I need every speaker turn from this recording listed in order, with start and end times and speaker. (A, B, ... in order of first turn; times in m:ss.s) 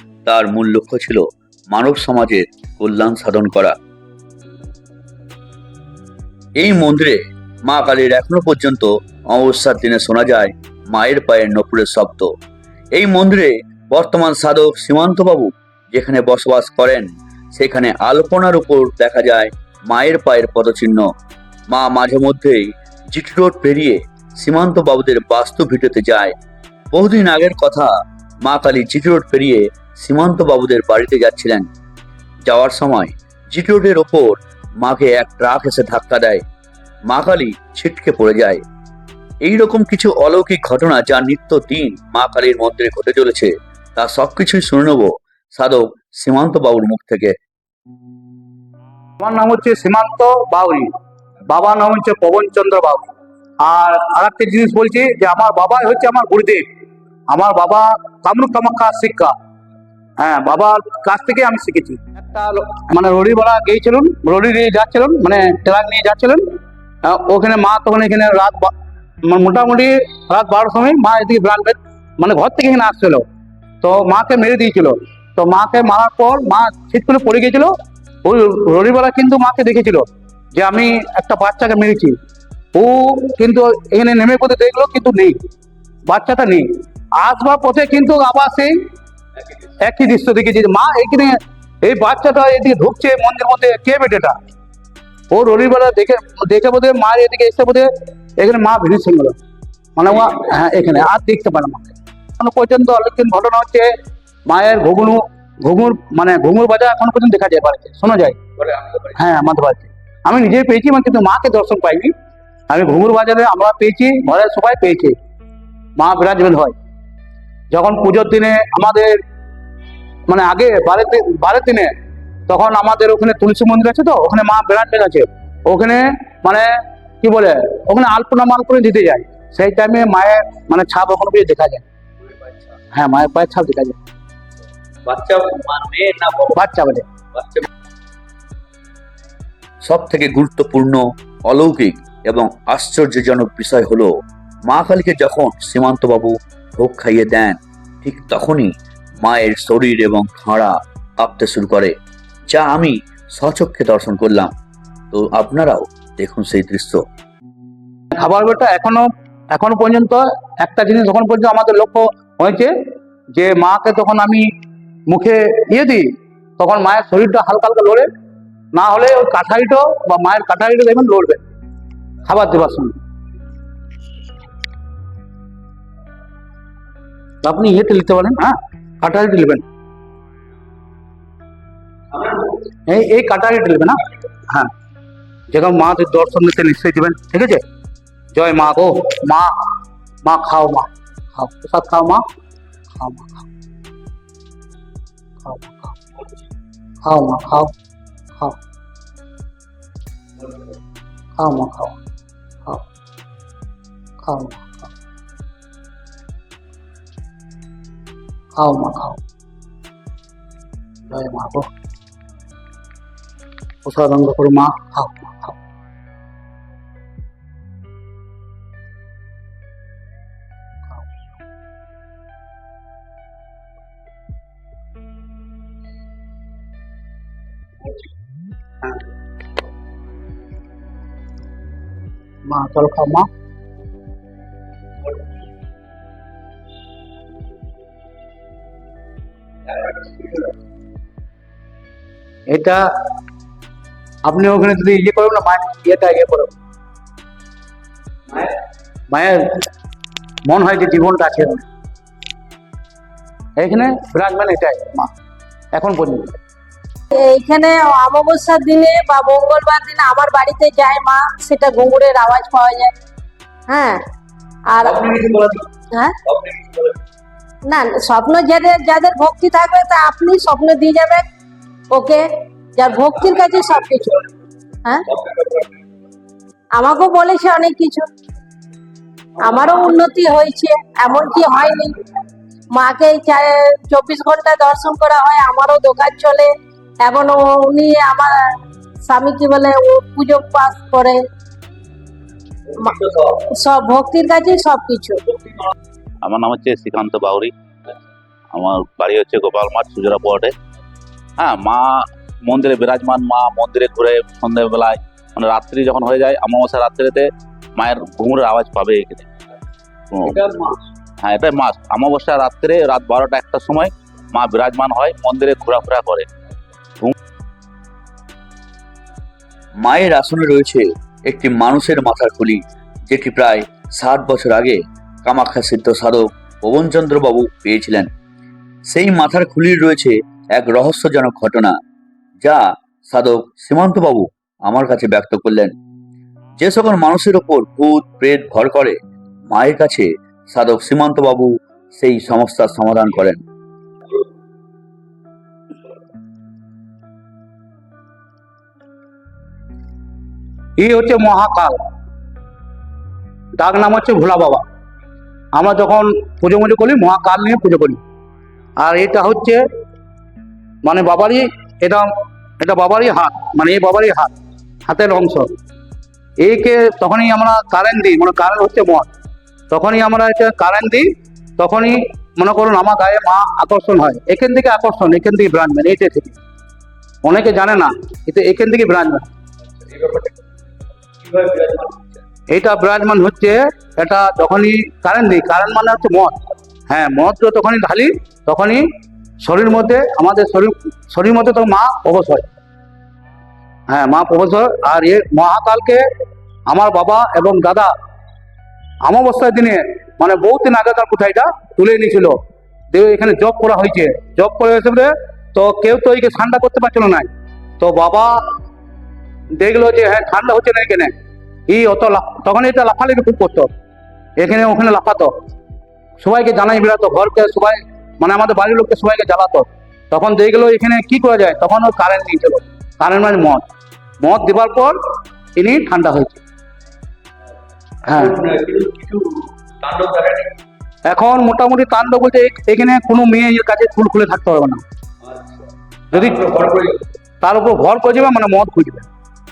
0:00.2-0:03.8 A
0:06.6-0:12.3 A
0:12.9-0:21.1 A
0:21.7-0:26.3 A
0:26.9-0:31.7 A
0:32.4-0:36.4 A
0:37.1-0:38.6 A
0:39.4-0:47.3 A
0:49.2-0:50.9 B
0:51.5-0:56.6 B
0:57.3-0:59.3 B
1:00.2-1:06.4 B
1:07.0-1:08.7 B
1:09.3-1:13.2 B
1:13.8-1:17.7 B
1:18.2-1:22.2 B
1:22.7-1:25.4 B
1:26.1-1:28.7 B
1:29.8-1:34.4 B
1:35.3-1:39.4 B
1:40.0-1:43.9 B
1:44.4-1:48.4 B
1:48.6-1:49.0 A
1:49.1-1:52.1 B
1:52.7-1:55.2 B
1:56.0-1:56.7 B
1:57.7-1:59.2 B
2:00.3-2:01.9 B
2:02.5-2:06.7 B
2:07.2-2:11.8 B
2:12.9-2:14.0 B
2:15.0-2:16.6 A
2:16.5-2:17.0 B
2:17.3-2:17.7 A
2:19.8-2:24.1 A
2:24.6-2:31.9 A
2:32.5-2:34.5 A
2:35.1-2:37.0 A
2:38.1-2:42.7 B
2:43.3-2:44.5 B
2:45.1-2:46.1 B
2:46.6-2:48.1 B
2:48.7-2:51.4 B
2:52.2-2:52.9 B
2:57.4-2:59.6 B
3:02.2-3:04.7 B
3:05.5-3:07.6 B
3:08.3-3:09.5 B
3:10.2-3:12.2 B
3:13.0-3:13.4 B
3:15.4-3:16.0 B
3:17.0-3:17.7 B
3:21.4-3:22.0 B
3:24.2-3:24.9 B
3:28.6-3:29.2 B
3:31.1-3:31.7 B
3:33.8-3:35.6 B
3:52.5-3:53.3 B
3:59.7-4:00.5 A
4:02.5-4:02.8 B
4:04.2-4:06.6 B
4:09.1-4:09.5 B
4:10.4-4:11.6 B
4:13.6-4:15.1 B
4:15.7-4:16.3 B
4:17.1-4:22.9 C
4:23.7-4:24.0 C
4:24.7-4:25.1 C
4:24.8-4:25.6 A
4:26.2-4:27.0 A
4:27.7-4:31.2 C
4:31.9-4:34.2 C
4:35.1-4:35.8 A
4:36.7-4:38.1 C
4:39.4-4:42.0 C
4:42.7-4:46.5 C
4:47.0-4:48.5 C
4:49.0-4:51.2 C
4:52.8-4:55.2 C
4:52.9-4:53.4 A
4:56.2-4:57.5 D
4:58.5-5:00.5 D
5:01.4-5:09.3 D
5:10.1-5:10.4 D
5:11.2-5:16.3 D
5:19.8-5:28.1 A
5:28.9-5:31.7 A
5:32.4-5:35.7 A
5:36.6-5:39.0 A
5:39.5-5:43.4 A
5:50.8-5:51.8 B
5:53.6-5:54.6 B
5:55.5-5:58.0 B
5:58.8-5:59.6 B
6:00.8-6:02.1 B
6:02.6-6:04.3 B
6:04.9-6:05.5 B
6:06.4-6:09.1 B
6:09.7-6:16.4 B
6:17.2-6:19.3 B
6:19.8-6:20.3 A
6:21.2-6:22.1 A
6:22.5-6:28.8 B
6:29.4-6:32.5 B
6:33.9-6:36.0 B
6:36.7-6:37.9 B
6:39.0-6:42.4 B
6:42.9-6:47.3 B
6:47.8-6:48.4 B
6:49.5-6:51.1 B
6:51.7-6:53.7 B
6:54.4-6:55.3 B
6:56.2-7:03.6 B
7:04.2-7:05.0 B
7:05.6-7:06.4 B
7:08.0-7:08.4 B
7:08.1-7:10.5 A
7:11.0-7:14.8 B
7:16.1-7:16.5 B
7:16.3-7:17.0 A
7:17.4-7:19.1 B